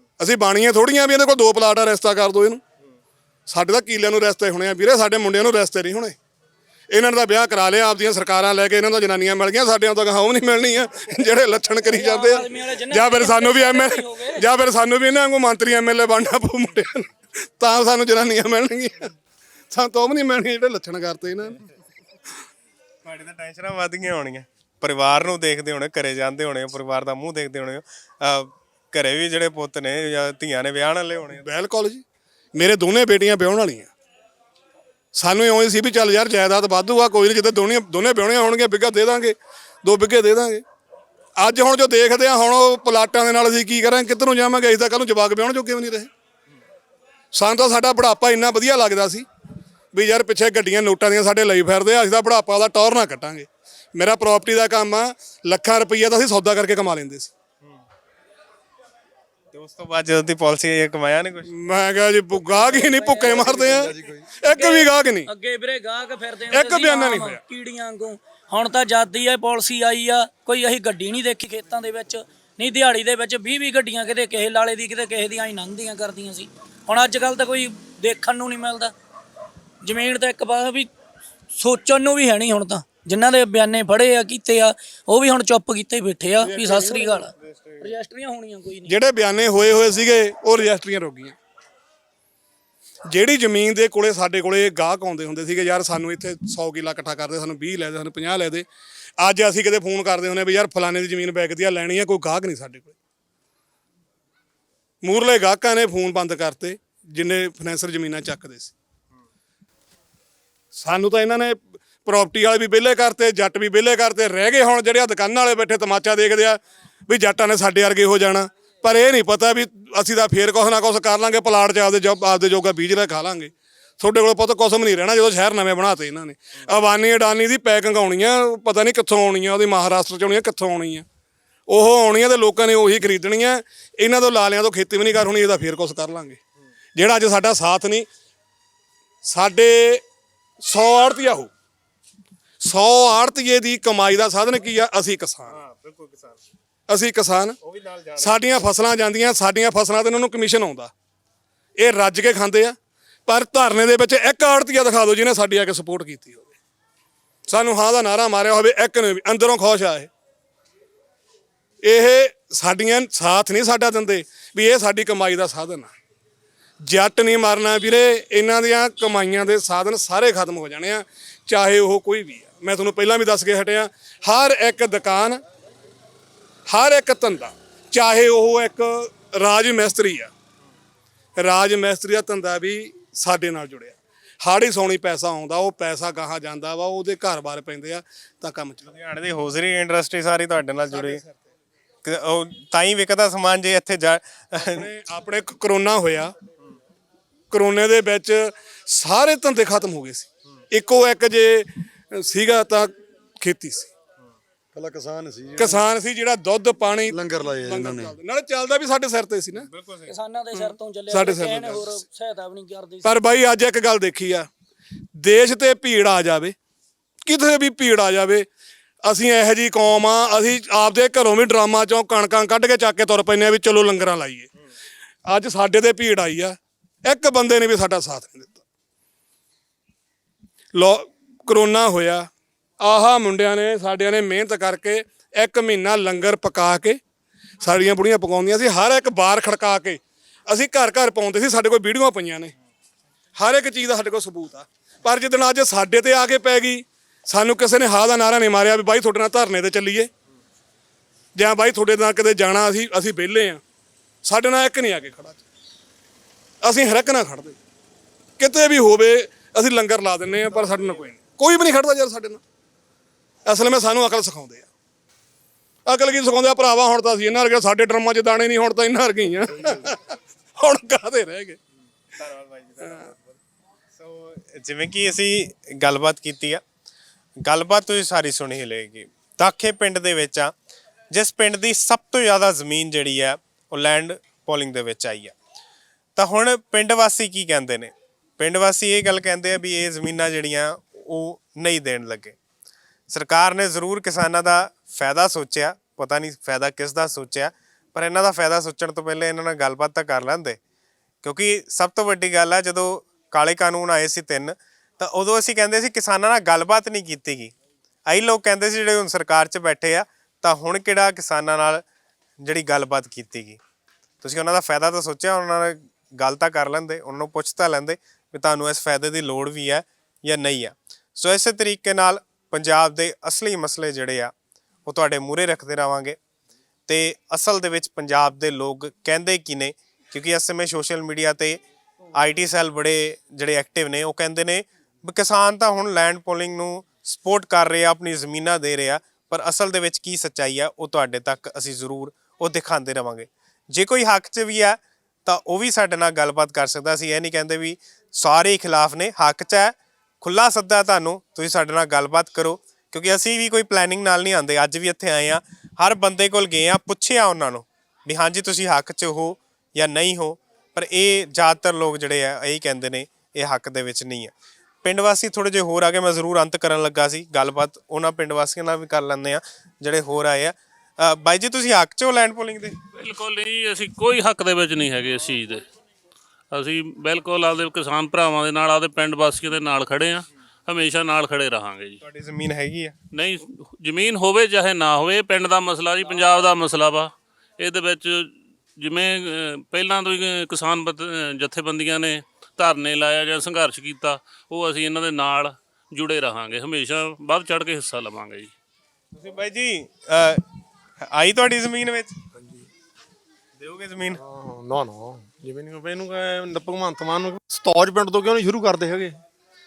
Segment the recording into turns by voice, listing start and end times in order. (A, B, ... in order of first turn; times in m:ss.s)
0:00.2-0:02.6 A
0:03.5-0:06.1 A
0:06.9-0:17.1 A
0:11.9-0:14.4 B
0:17.6-0:19.1 A
0:19.7-0:21.6 A
0:23.0-0:31.4 C
0:31.4-0:32.0 A
0:32.5-0:33.9 A
0:35.1-0:40.6 A
0:41.4-0:46.1 A
0:47.3-0:49.2 A
0:49.9-0:57.3 A
0:59.5-1:01.5 C
1:01.5-1:05.3 A
1:02.5-1:03.9 B
1:03.2-1:04.2 D
1:04.4-1:18.9 B
1:06.5-1:07.4 A
1:19.8-1:20.9 B
1:21.5-1:28.9 B
1:26.5-1:27.2 A
1:27.4-1:27.9 C
1:28.9-1:31.4 A
1:33.1-1:38.6 A
1:39.2-1:42.9 A
1:45.0-1:48.7 A
1:50.7-2:11.0 A
2:11.7-2:16.4 A
2:17.0-2:18.1 A
2:19.2-2:20.0 A
2:20.6-2:21.5 A
2:22.6-2:25.6 A
2:25.5-2:26.4 C
2:26.9-2:27.6 A
2:27.6-2:28.6 C
2:28.2-2:30.9 A
2:31.8-2:36.5 A
2:37.5-2:40.1 A
2:41.8-2:45.9 A
2:46.8-2:55.4 A
2:56.7-3:00.3 A
3:01.4-3:08.8 A
3:08.8-3:11.2 C
3:10.9-3:11.4 A
3:12.0-3:14.8 C
3:14.6-3:16.3 A
3:17.5-3:23.9 A
3:24.7-3:25.8 D
3:25.6-3:29.7 A
3:27.1-3:28.1 D
3:29.6-3:30.1 C
3:30.0-3:33.2 B
3:30.5-3:31.9 A
3:33.0-3:34.5 A
3:35.2-3:36.5 A
3:37.2-3:38.4 A
3:39.0-3:44.5 A
3:45.2-3:48.6 A
3:50.7-3:52.3 A
3:52.8-3:57.0 A
3:57.6-4:02.5 A
4:03.4-4:10.1 A
4:11.4-4:13.6 A
4:14.2-4:15.4 A
4:16.6-4:17.6 A
4:18.4-4:22.4 A
4:23.4-4:24.7 A
4:25.8-4:31.6 A
4:32.2-4:33.3 C
4:34.0-4:36.6 C
4:37.4-4:40.5 C
4:41.1-4:45.3 C
4:46.2-4:52.4 C
4:53.1-5:00.6 C
5:01.2-5:07.5 C
5:08.1-5:11.8 C
5:12.4-5:13.6 C
5:14.2-5:24.3 C
5:24.8-5:26.2 C
5:26.9-5:31.6 C
5:32.2-6:12.8 C
6:13.0-6:15.6 E
6:16.5-6:22.0 E
6:22.0-6:23.0 C
6:23.1-6:38.5 E
6:39.1-6:40.4 C
6:41.0-6:42.2 C
6:43.6-6:44.2 C
6:44.1-6:49.2 F